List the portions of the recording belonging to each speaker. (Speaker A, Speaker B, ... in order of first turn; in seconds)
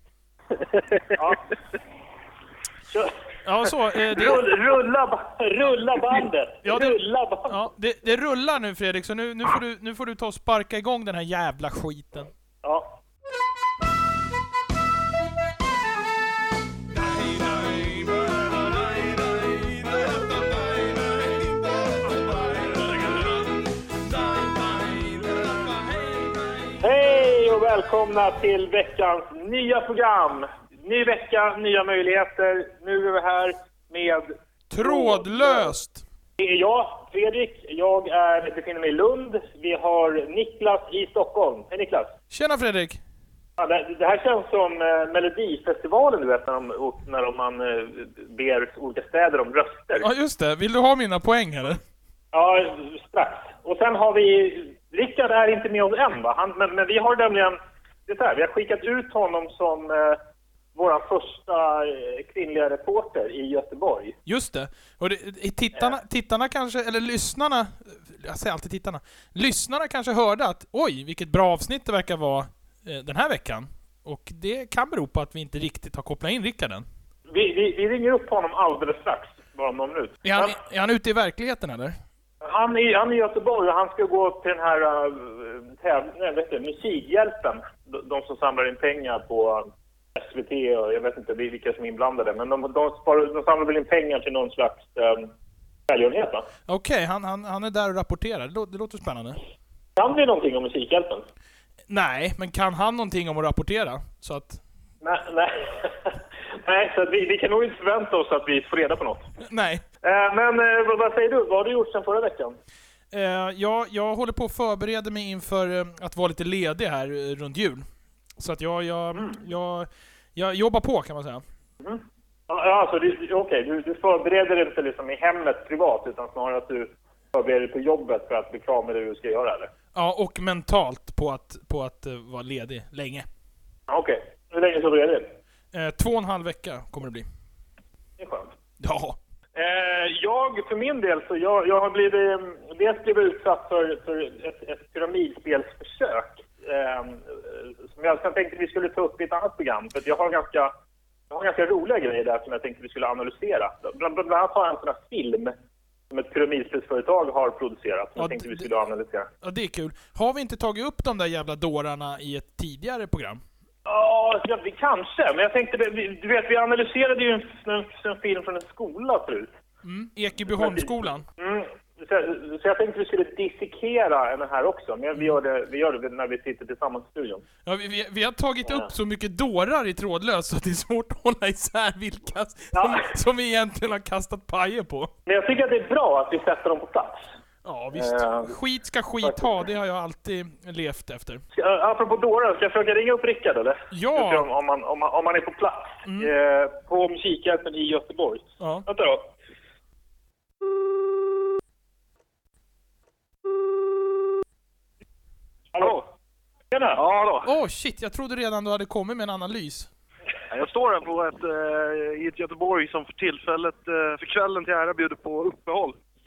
Speaker A: 0.6-1.0, 206.9-207.5, 210.5-215.9
Speaker B: 1.1-1.5, 2.9-3.1, 3.7-7.6, 12.6-13.0, 26.8-35.7, 36.4-42.1, 43.6-50.1, 52.3-60.2, 60.7-64.2, 77.3-80.5, 82.4-95.3, 95.9-96.5, 100.0-101.2, 105.0-109.3, 110.0-112.5, 121.8-129.7, 133.9-135.3, 138.2-138.5, 139.5-150.7, 151.3-155.5, 156.1-159.3, 163.8-169.5, 170.6-177.4, 182.7-183.1, 185.3-187.3, 187.9-188.5, 191.5-199.3, 205.7-206.0, 206.7-207.0
Speaker C: 3.4-4.5, 6.6-12.3, 16.9-26.4, 34.7-36.0, 42.3-43.0, 50.0-51.8, 64.2-76.8, 80.2-82.0, 96.7-99.4, 101.9-104.6, 109.4-109.8, 113.1-117.8, 118.4-121.4, 129.9-133.3, 135.7-137.2, 138.8-139.2, 158.2-158.7, 159.4-163.4, 169.8-171.2, 177.7-185.1, 187.6-191.4, 193.9-194.4, 196.0-196.3, 198.6-198.8, 207.4-209.9